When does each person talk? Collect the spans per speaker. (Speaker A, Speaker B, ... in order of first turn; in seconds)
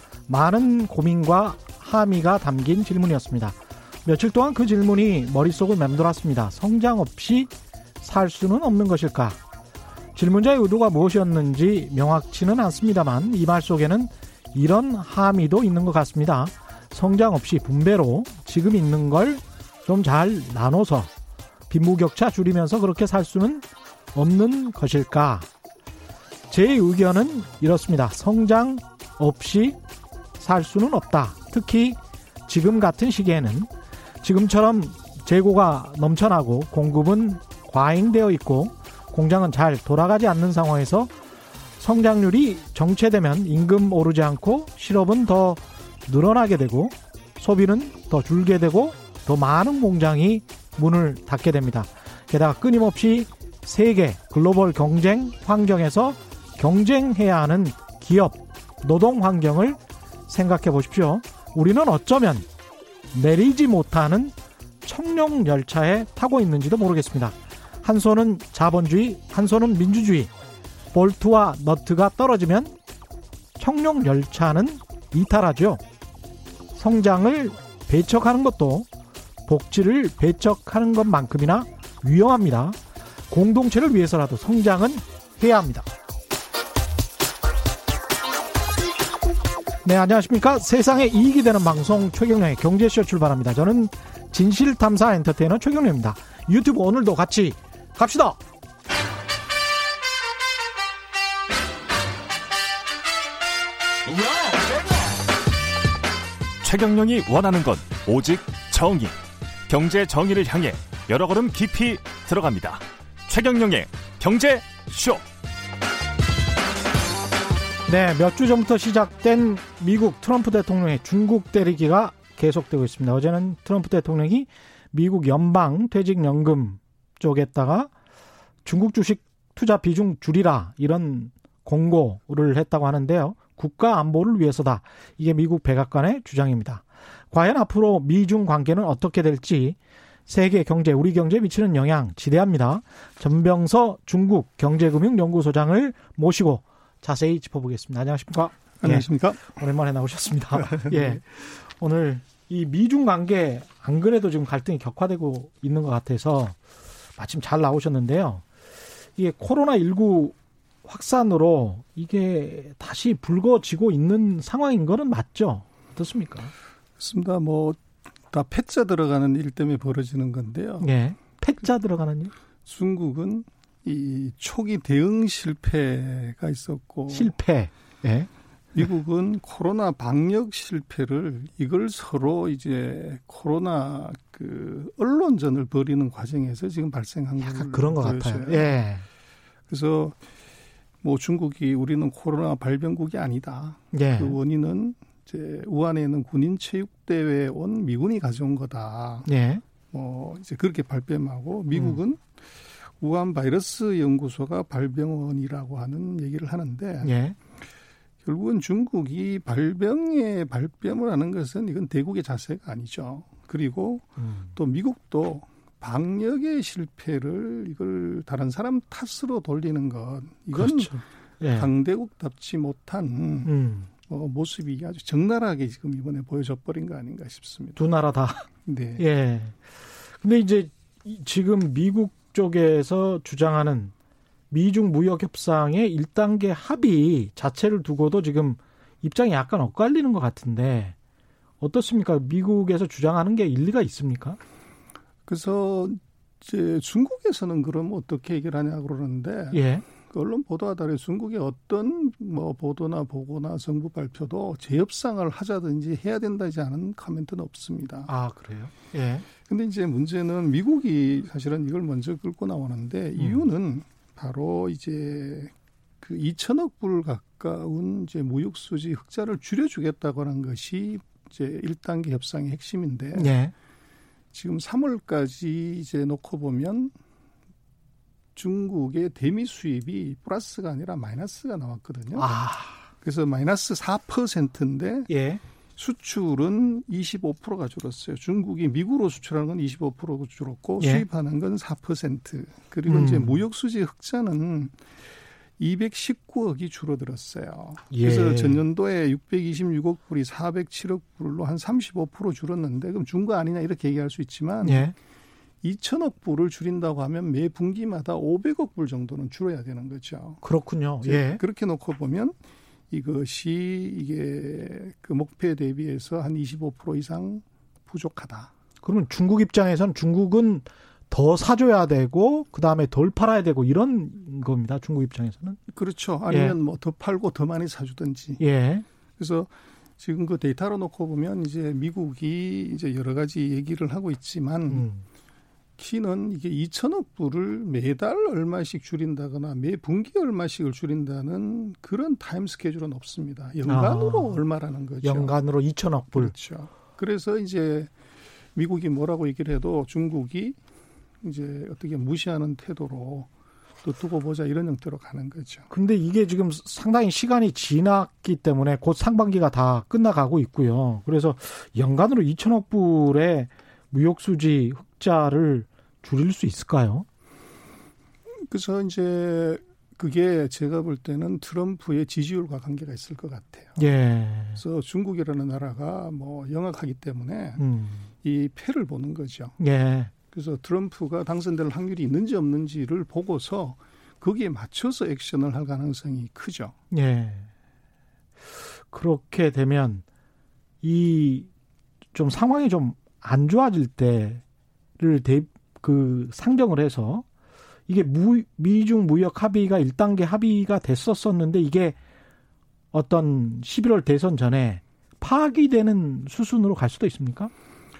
Speaker A: 0.3-9.4, 10.1-21.1, 21.7-25.5, 26.5-29.8, 30.4-33.7, 34.2-41.1, 41.8-62.5, 63.1-70.3, 70.9-72.7, 73.6-75.8, 76.7-78.9, 79.5-82.8, 83.3-85.9, 89.8-98.4, 117.9-127.9, 128.6-156.6, 157.2-158.4, 159.2-166.5, 170.8-172.3, 177.1-178.3, 187.4-189.1, 193.9-194.4, 199.2-199.6, 201.7-202.0, 207.0-207.4, 214.2-214.5, 220.5-221.7, 223.4-223.9, 227.8-228.4, 229.0-229.6, 230.1-233.9, 234.5-240.9, 241.6-244.4, 249.5-249.8, 258.1-259.2, 263.2-263.4, 273.1-273.5, 282.1-282.8, 285.1-285.4, 290.8-291.0, 292.9-293.4, 297.9-298.6, 304.6-304.9, 310.4-311.4, 318.8-325.6, 326.3-326.6, 328.4-328.8, 334.7-335.0, 343.6-344.4, 345.0-346.3, 355.7-367.1, 373.8-374.6, 377.6-378.1, 379.6-380.1, 386.9-387.5, 388.9-390.0, 390.8-391.5, 392.1-394.4, 395.0-397.2, 397.9-402.0, 402.9-407.5
Speaker B: 106.6-109.1, 109.7-115.2
Speaker C: 148.8-149.4, 150.6-151.2, 167.0-167.8, 168.3-170.9, 172.7-177.3, 178.7-188.7, 189.7-190.2, 191.0-199.3, 199.9-202.2, 203.0-207.1, 208.2-221.0, 221.5-223.5, 224.1-227.8, 228.7-229.0, 245.3-258.1, 259.5-273.3, 274.3-276.9, 278.4-282.3, 283.0-285.1, 285.8-294.7, 295.6-304.9, 305.6-310.4, 311.0-312.3, 312.9-318.5, 325.7-328.4, 329.2-334.9, 335.8-345.3, 346.1-347.9, 348.6-350.6, 351.2-353.3, 353.8-355.7, 368.5-373.8, 374.6-377.6, 378.2-379.6, 380.3-386.7